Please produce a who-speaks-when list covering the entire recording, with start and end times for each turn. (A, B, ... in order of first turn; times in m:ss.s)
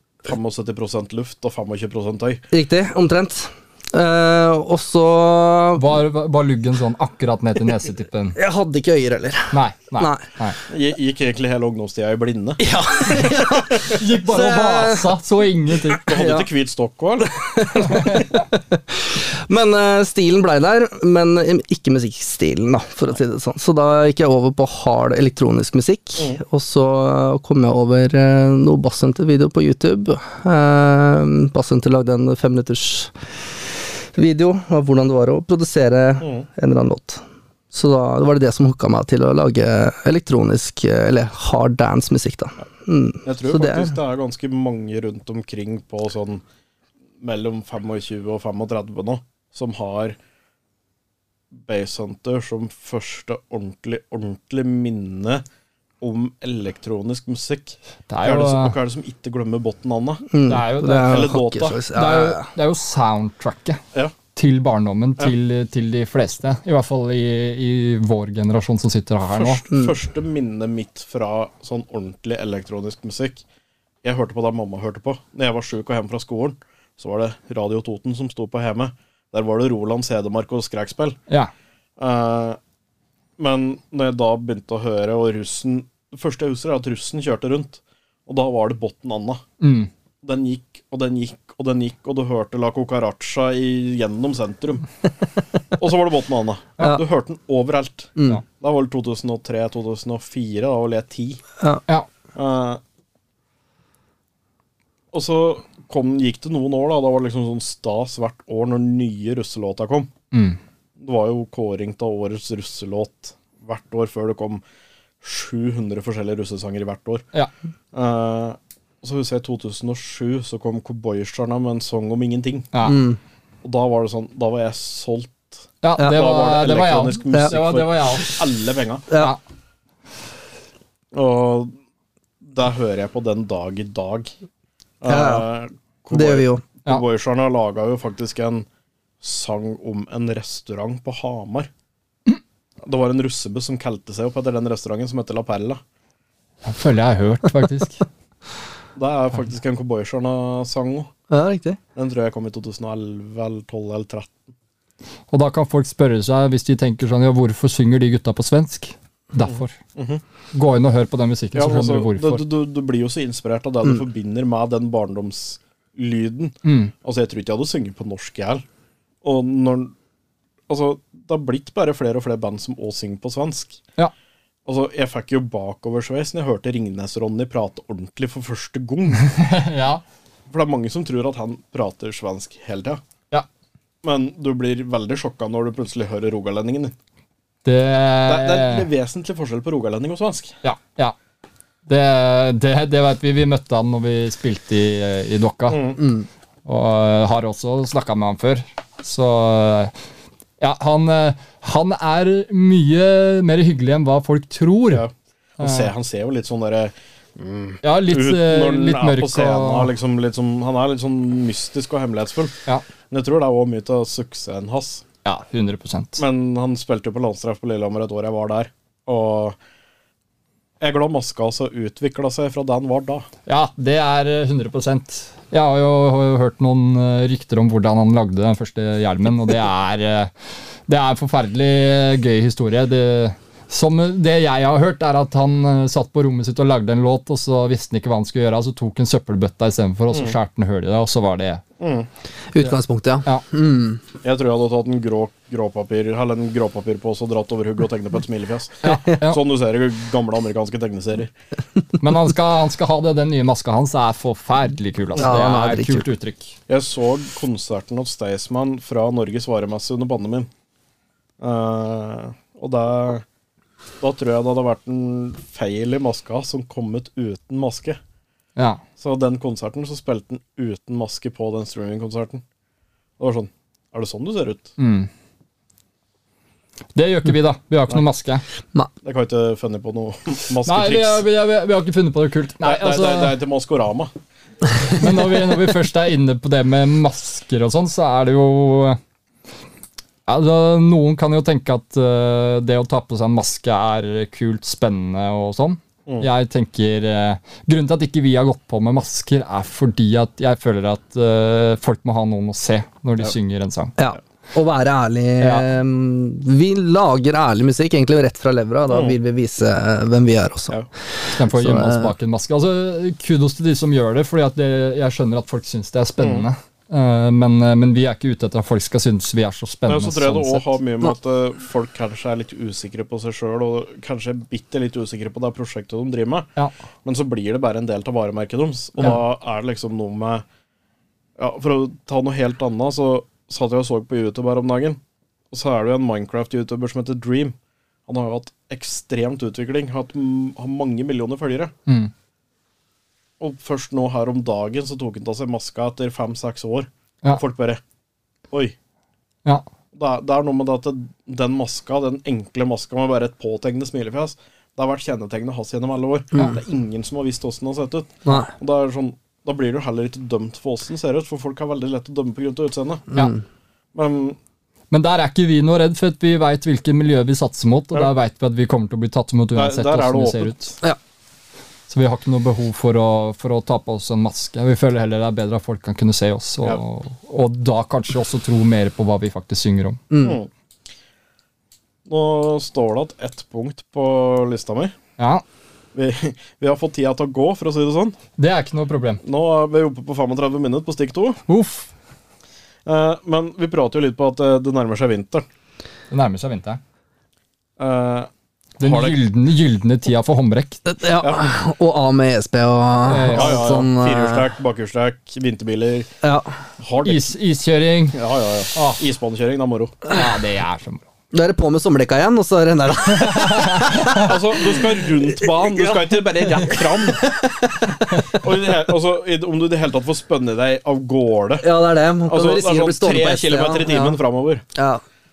0:00.2-0:02.4 A
0:02.5-0:05.9 B
0:05.8-0:08.4 C
0:08.4-0:10.3 B
0:09.5-0:10.6 C
0:10.7-0:12.7 A
0:12.6-0:15.2 B
0:13.9-0:16.1 C
0:15.8-0:16.5 B
0:16.0-0:17.4 A
0:17.2-0:33.1 B
0:17.8-0:18.4 C
0:34.1-0:44.0 B
0:36.2-0:36.5 A
0:43.2-0:46.4 A
0:47.2-0:50.2 A
0:51.6-0:55.4 A
0:56.0-1:00.3 A
0:58.1-0:58.8 C
1:00.3-1:02.5 B
1:00.5-1:01.3 C
1:01.1-1:01.8 A
1:01.9-1:03.8 C
1:04.4-1:09.6 C
1:09.3-1:13.4 A
1:14.0-1:21.2 A
1:22.0-1:22.6 A
1:23.4-1:29.4 A
1:29.6-1:29.9 C
1:30.2-1:34.9 A
1:35.8-1:41.4 A
1:38.2-1:38.4 B
1:42.4-1:42.8 A
1:45.1-1:50.1 A
1:50.3-1:50.6 C
1:51.0-1:54.6 A
1:55.2-1:57.2 A
1:57.9-2:02.7 A
2:02.7-2:03.0 C
2:02.8-2:03.2 B
2:03.6-2:09.1 A
2:05.8-2:08.4 C
2:06.0-2:06.3 B
2:09.1-2:09.4 B
2:11.1-2:11.8 A
2:12.4-2:14.3 A
2:15.0-2:18.7 A
2:15.0-2:15.5 B
2:16.1-2:16.6 B
2:19.2-2:21.7 A
2:22.8-2:25.8 A
2:26.6-2:28.0 C
2:29.0-2:31.1 A
2:31.3-2:31.8 B
2:32.0-2:34.5 A
2:35.3-2:39.8 C
2:39.4-2:40.2 A
2:40.5-2:42.4 C
2:41.6-2:48.6 A
2:46.6-2:46.9 C
2:49.2-2:49.9 A
2:50.7-2:53.8 A
2:54.7-2:59.3 A
2:59.2-3:00.0 C
3:00.5-3:03.0 A
3:04.0-3:06.9 A
3:07.6-3:08.9 C
3:08.3-3:10.6 A
3:10.6-3:11.2 C
3:11.9-3:15.8 C
3:15.7-3:16.0 A
3:16.0-3:16.3 B
3:16.7-3:19.9 C
3:20.6-3:25.0 C
3:24.9-3:32.6 A
3:25.6-3:25.9 C
3:27.8-3:29.9 C
3:33.1-3:35.0 A
3:35.2-3:36.2 C
3:36.2-3:39.6 A
3:40.8-3:43.3 A
3:43.5-3:50.3 C
3:50.9-4:01.6 C
4:01.8-4:02.1 A
4:02.5-4:04.0 B
4:04.2-4:11.3 A
4:08.8-4:09.4 C
4:12.0-4:16.6 C
4:15.2-4:16.1 B
4:16.7-4:20.5 A
4:21.4-4:23.2 A
4:24.0-4:28.0 A
4:28.6-4:28.8 C
4:29.0-4:32.4 A
4:33.2-4:34.7 A
4:34.8-4:35.1 C
4:37.0-4:38.4 C
4:39.0-4:41.2 A
4:40.7-4:43.4 C
4:42.6-4:44.1 A
4:45.0-4:49.0 C
4:50.3-5:04.0 C
5:04.0-5:12.1 B
5:05.4-5:05.6 C
5:08.9-5:09.2 A
5:11.4-5:20.7 C
5:19.9-5:26.5 A
5:27.0-5:30.4 A
5:31.4-5:35.0 A
5:35.5-5:37.6 A
5:38.1-5:41.7 A
5:41.9-5:42.1 C
5:43.4-5:47.8 A
5:49.9-6:03.1 A
5:56.3-5:56.6 B
5:58.3-5:58.5 B
6:03.1-6:03.4 B
6:03.9-6:04.4 A
6:04.9-6:10.8 C
6:09.6-6:10.7 A
6:11.9-6:20.0 C
6:20.1-6:20.4 B
6:20.2-6:20.5 A
6:22.1-6:24.9 A
6:25.2-6:25.4 C
6:26.0-6:28.2 A
6:28.4-6:29.2 C
6:29.2-6:31.4 A
6:31.5-6:31.9 C
6:32.9-6:35.4 A
6:36.1-6:36.8 C
6:37.8-6:39.2 A
6:38.8-6:40.8 C
6:40.9-6:44.5 B
6:41.2-6:41.5 A
6:43.1-6:43.8 C
6:43.3-6:46.1 A
6:46.2-6:46.6 B
6:46.8-6:47.3 A
6:47.0-6:48.2 C
6:48.1-6:50.0 A
6:48.8-6:49.0 C
6:50.1-6:51.1 C
6:51.3-6:58.4 B
6:53.1-6:54.3 C
6:54.1-6:57.3 A
6:58.3-7:01.7 A
7:01.6-7:04.2 B
7:02.3-7:04.6 A
7:04.8-7:05.0 B